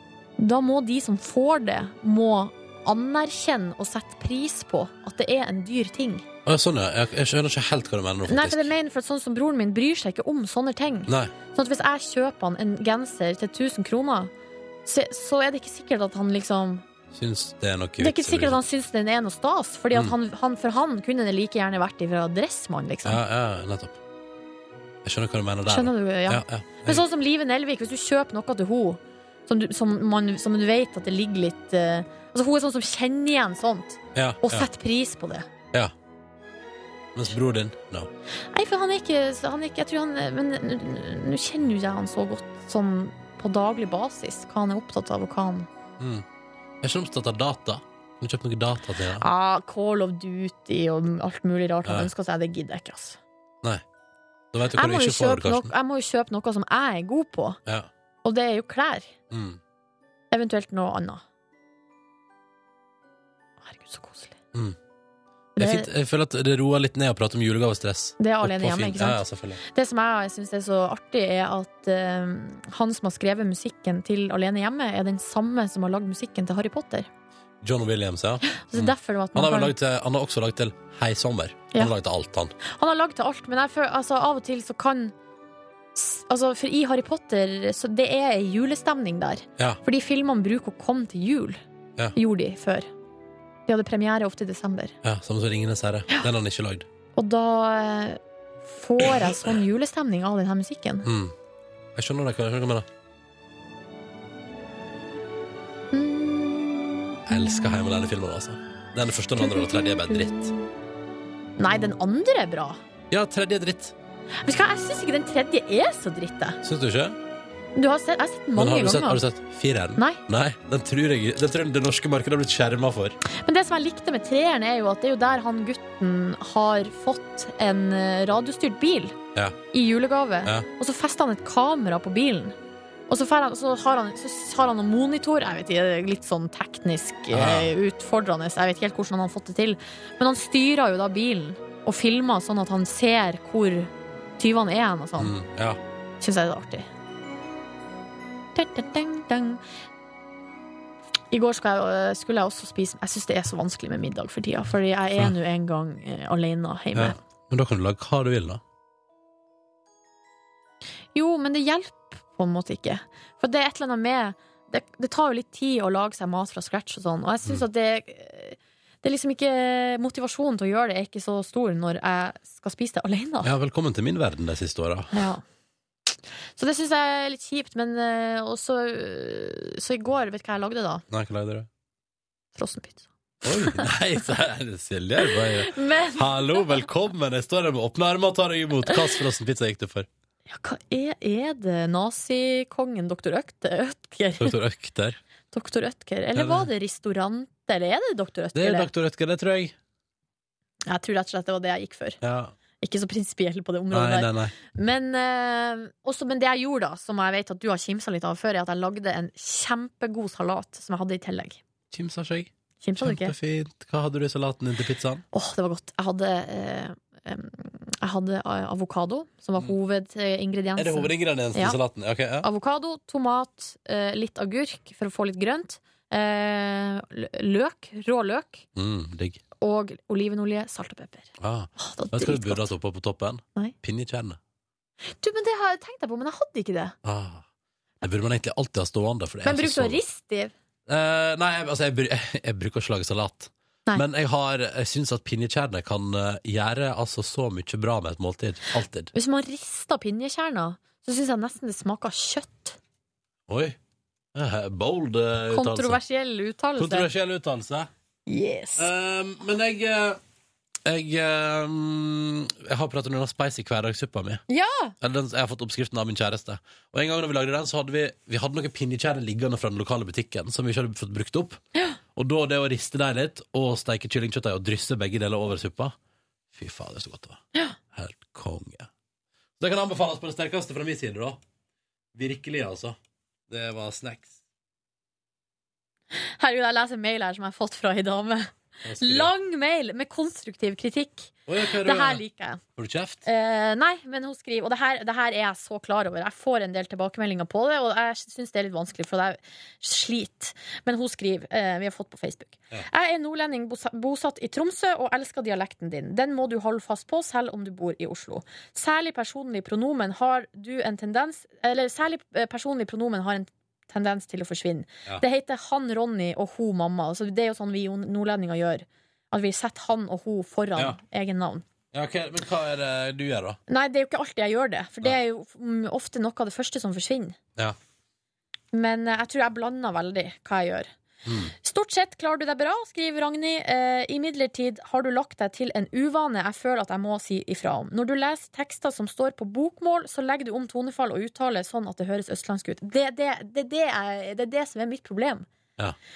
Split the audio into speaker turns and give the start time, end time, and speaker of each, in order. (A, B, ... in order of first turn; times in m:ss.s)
0:00.4-0:06.2 A
0:06.4-0:08.7 B
0:08.3-0:14.3 A
0:11.1-0:11.3 B
0:14.8-0:16.8 A
0:17.1-0:18.6 B
0:18.0-0:23.2 A
0:23.0-0:24.0 B
0:25.0-0:27.0 B
0:25.7-0:35.5 A
0:34.1-0:34.7 B
0:37.1-0:38.1 B
0:38.5-0:45.7 A
0:46.0-0:46.2 B
0:46.8-0:49.2 B
0:49.2-0:53.2 A
0:51.8-0:52.1 B
0:54.5-0:55.7 B
0:54.8-0:57.6 A
0:58.2-0:59.1 A
0:59.3-0:59.6 B
1:00.3-1:01.2 A
1:03.6-1:04.4 A
1:05.6-1:09.6 B
1:05.6-1:05.9 A
1:08.2-1:17.1 A
1:17.6-1:22.5 B
1:18.4-1:19.7 A
1:22.6-1:25.1 A
1:25.9-1:31.6 A
1:32.1-1:32.9 A
1:33.7-1:35.0 A
1:35.0-1:36.8 B
1:37.1-1:41.1 A
1:39.0-1:39.5 B
1:41.0-1:41.3 B
1:41.9-1:42.9 B
1:45.9-1:48.1 A
1:47.3-1:50.5 B
1:49.4-1:50.7 A
1:51.6-1:52.8 A
1:53.1-1:53.9 B
1:54.4-1:56.6 A
1:56.6-1:57.2 B
1:57.8-1:59.2 A
1:58.5-2:03.2 B
2:00.0-2:00.2 A
2:03.3-2:09.2 A
2:09.7-2:12.6 A
2:13.1-2:25.3 A
2:17.3-2:17.7 B
2:25.2-2:25.8 B
2:26.2-2:26.9 A
2:28.5-2:29.6 A
2:31.3-2:37.2 A
2:36.9-2:38.6 B
2:41.1-2:53.5 A
2:53.4-2:55.2 B
2:55.1-2:55.4 A
2:56.6-3:01.0 A
3:01.1-3:01.7 B
3:02.6-3:03.1 A
3:03.4-3:10.1 B
3:03.6-3:03.8 A
3:05.2-3:06.8 A
3:08.9-3:09.1 A
3:10.5-3:14.6 A
3:14.4-3:15.2 B
3:15.5-3:18.9 A
3:16.3-3:16.7 B
3:18.5-3:19.7 B
3:20.8-3:22.2 A
3:22.2-3:22.5 B
3:22.8-3:31.6 A
3:23.9-3:24.5 B
3:31.9-3:35.2 B
3:32.8-3:33.3 A
3:35.3-3:41.8 A
3:40.8-3:42.5 B
3:42.4-3:48.6 A
3:48.7-3:49.4 B
3:49.6-3:52.7 A
3:51.4-3:54.4 B
3:55.1-3:56.9 A
3:57.0-3:57.4 B
3:58.0-4:00.0 B
3:59.4-4:00.5 A
4:00.9-4:09.1 B
4:09.1-4:12.8 A
4:13.5-4:13.8 B
4:14.3-4:16.0 B
4:15.5-4:17.1 A
4:16.8-4:17.9 B
4:18.3-4:18.9 A
4:18.8-4:20.2 B
4:20.8-4:24.4 B
4:24.5-4:24.9 A
4:25.0-4:31.6 B
4:32.2-4:36.0 B
4:36.5-4:38.9 B
4:39.6-4:41.4 B
4:42.1-4:43.0 B
4:43.5-4:44.4 B
4:46.1-4:52.6 A
4:48.8-4:49.3 B
4:51.5-4:52.2 B
4:52.8-4:53.2 B
4:53.2-5:21.6 A
5:21.9-5:23.6 B
5:23.7-5:27.4 A
5:28.7-5:30.9 A
5:31.2-5:31.5 B
5:31.6-5:45.4 A